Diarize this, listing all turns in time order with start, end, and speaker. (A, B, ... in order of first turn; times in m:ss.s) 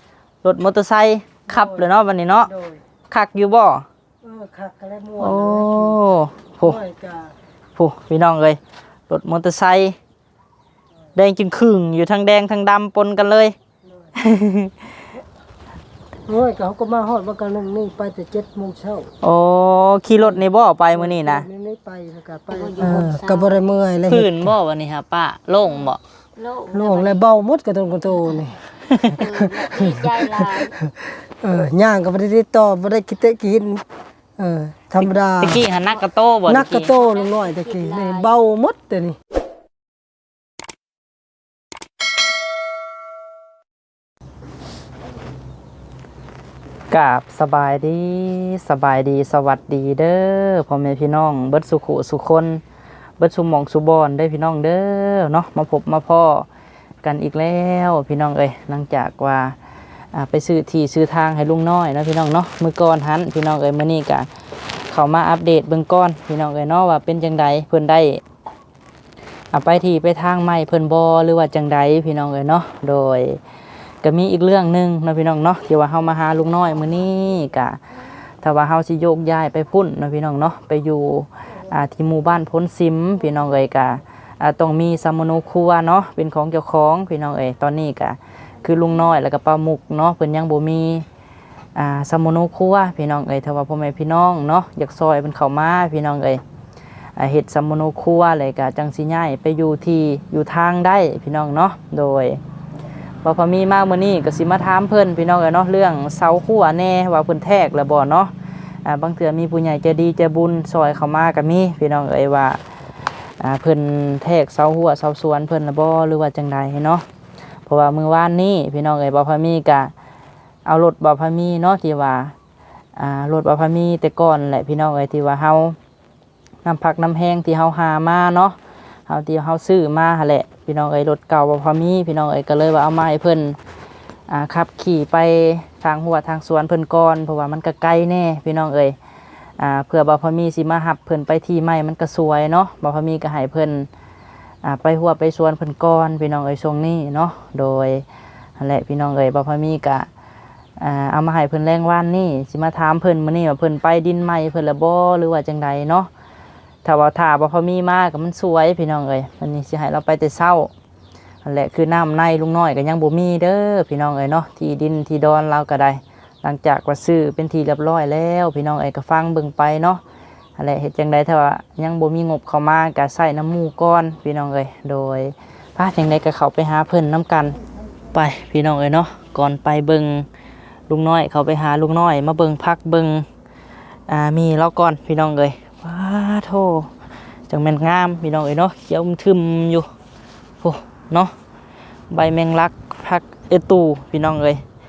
0:00.4-0:02.5 A
0:01.5-0:02.8 B
0:03.1-0:03.8 A
0:04.2-0:06.0 B
0:05.2-0:06.8 A
0:06.6-0:07.3 B
0:07.8-0:10.0 A
0:11.1-0:13.6 A
0:13.9-0:14.1 B
0:14.1-0:15.0 A
0:16.3-0:19.1 B
0:19.2-0:21.4 A
0:20.2-0:24.5 B
0:22.5-0:23.7 C
0:24.1-0:26.0 A
0:25.7-0:27.2 C
0:26.7-0:28.6 B
0:28.1-0:30.8 C
0:28.9-0:29.2 A
0:29.2-0:33.8 B
0:34.4-0:35.7 B
0:35.0-0:36.9 A
0:36.5-0:39.2 B
0:36.8-0:38.3 C
0:46.9-0:52.6 A
0:53.2-0:56.5 A
0:57.0-0:59.6 A
1:00.1-1:04.3 A
1:04.9-1:08.2 A
1:09.5-1:13.4 A
1:14.0-1:17.8 A
1:18.4-1:31.0 A
1:28.6-1:29.0 C
1:31.8-1:36.4 A
1:37.2-1:42.4 A
1:43.2-1:48.3 A
1:48.8-1:52.6 A
1:53.4-1:57.0 A
1:57.6-1:59.9 A
2:00.6-2:02.3 A
2:03.0-2:05.8 A
2:06.6-2:08.6 A
2:09.1-2:13.6 A
2:14.3-2:18.9 A
2:19.6-2:23.9 A
2:24.6-2:28.0 A
2:28.6-2:30.1 A
2:30.8-2:36.1 A
2:36.8-2:40.7 A
2:41.4-2:50.0 A
2:50.6-2:57.6 A
2:58.1-3:00.3 A
3:00.9-3:03.2 A
3:04.1-3:06.9 A
3:07.5-3:09.9 A
3:10.6-3:11.3 A
3:12.1-3:14.6 A